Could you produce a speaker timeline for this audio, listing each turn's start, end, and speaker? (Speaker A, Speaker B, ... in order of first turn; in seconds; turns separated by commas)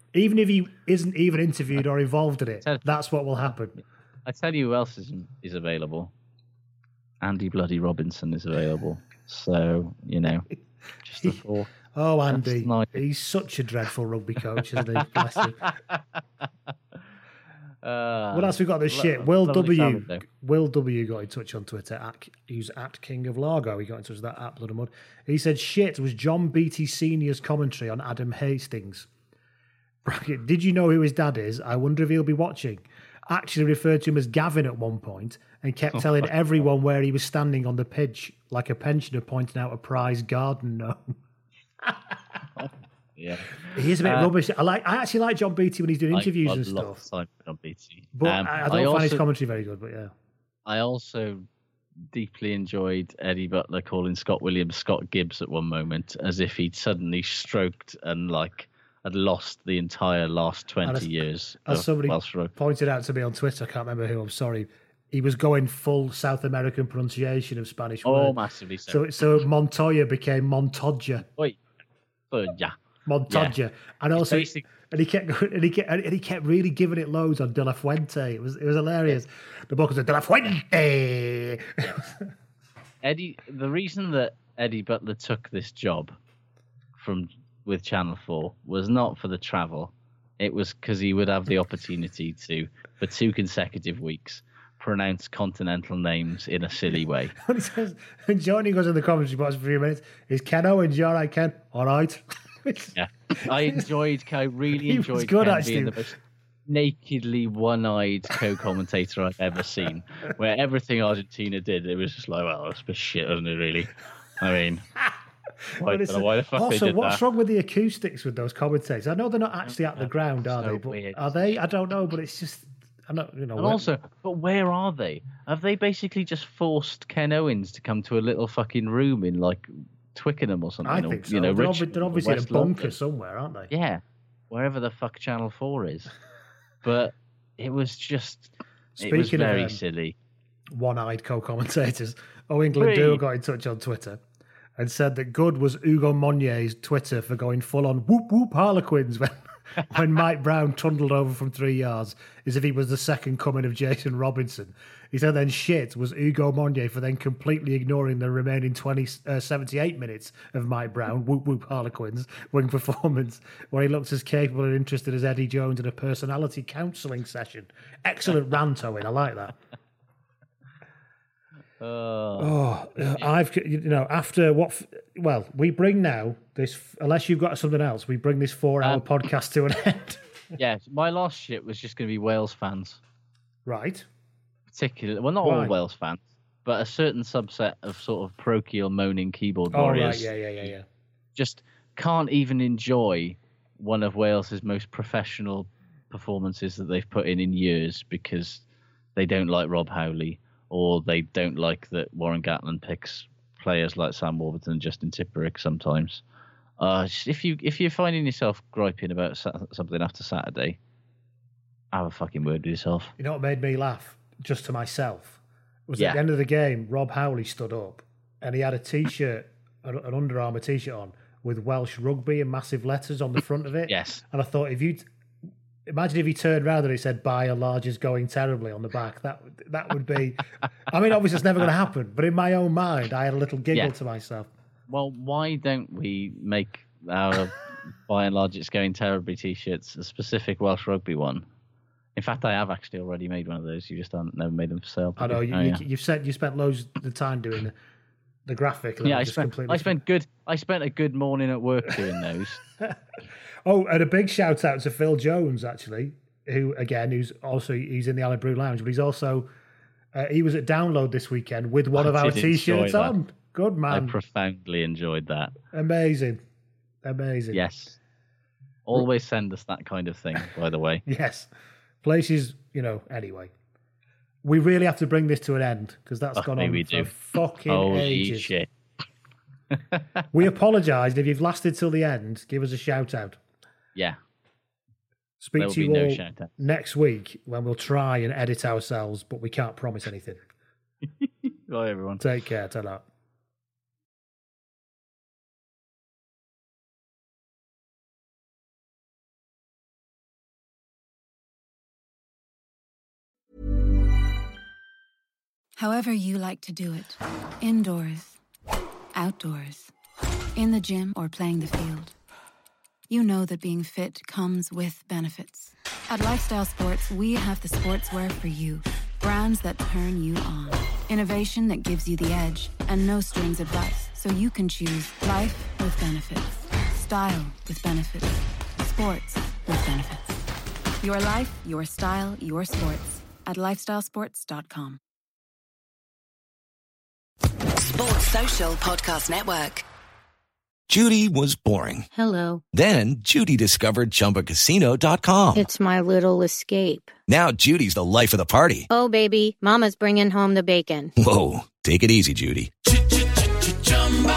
Speaker A: 0.1-3.8, Speaker B: 4.3-6.1, Speaker B: 7.2-10.5, Speaker B: 11.1-11.7, Speaker A: 11.9-15.6, Speaker B: 12.3-13.0, Speaker B: 15.0-16.0, Speaker B: 17.8-20.2, Speaker A: 18.3-29.1, Speaker A: 30.1-41.1, Speaker B: 36.0-36.3, Speaker B: 42.6-44.3, Speaker A: 43.7-47.0, Speaker B: 46.1-49.2, Speaker A: 48.2-50.1, Speaker B: 50.7-51.5, Speaker B: 52.1-62.5, Speaker A: 60.8-61.1, Speaker A: 61.7-68.4, Speaker B: 68.0-69.0, Speaker A: 68.9-71.3, Speaker B: 72.3-72.8, Speaker A: 73.1-82.2, Speaker B: 73.3-73.5, Speaker B: 74.2-74.7, Speaker B: 83.0-86.2, Speaker B: 87.0-97.3, Speaker A: 97.4-102.9, Speaker B: 103.0-114.9, Speaker A: 104.9-106.0, Speaker A: 115.8-123.9, Speaker B: 115.8-117.2, Speaker B: 120.0-121.6, Speaker B: 123.6-133.0, Speaker A: 130.9-133.7, Speaker B: 133.7-136.1, Speaker B: 136.8-140.2, Speaker A: 139.0-139.8, Speaker A: 140.7-144.2, Speaker B: 142.8-143.2, Speaker A: 144.8-169.6, Speaker B: 171.8-172.6, Speaker A: 172.4-180.2, Speaker B: 180.6-183.0, Speaker A: 183.7-184.1, Speaker B: 184.7-190.7, Speaker A: 185.4-185.7, Speaker A: 189.7-190.8, Speaker B: 191.3-198.6, Speaker B: 199.2-206.2, Speaker B: 206.8-210.8, Speaker B: 211.9-213.1, Speaker A: 213.2-225.1, Speaker B: 223.9-224.2, Speaker A: 225.9-234.5, Speaker B: 234.9-241.4, Speaker B: 242.2-245.8, Speaker A: 245.2-247.8, Speaker A: 248.5-250.0, Speaker B: 249.0-252.6, Speaker A: 253.7-259.5, Speaker A: 260.1-264.2, Speaker B: 261.9-263.1, Speaker B: 263.9-265.6, Speaker A: 265.7-266.4, Speaker A: 267.0-267.6, Speaker B: 267.5-268.0, Speaker B: 268.9-271.0, Speaker A: 271.1-271.5, Speaker A: 272.0-273.5, Speaker A: 274.4-278.5, Speaker B: 276.4-277.1, Speaker B: 277.7-278.7, Speaker B: 279.7-280.0, Speaker A: 280.3-283.4, Speaker A: 285.4-290.4, Speaker B: 285.6-286.5, Speaker B: 291.2-292.2, Speaker A: 292.2-293.1, Speaker C: 305.8-308.4, Speaker C: 309.1-309.9, Speaker C: 310.6-312.1, Speaker C: 313.1-330.5, Speaker C: 331.0-335.0, Speaker D: 337.8-339.8, Speaker E: 340.9-342.1, Speaker F: 342.1-342.6, Speaker E: 342.7-345.7, Speaker F: 345.6-347.1, Speaker E: 347.3-348.9, Speaker F: 348.9-351.1, Speaker E: 351.2-352.7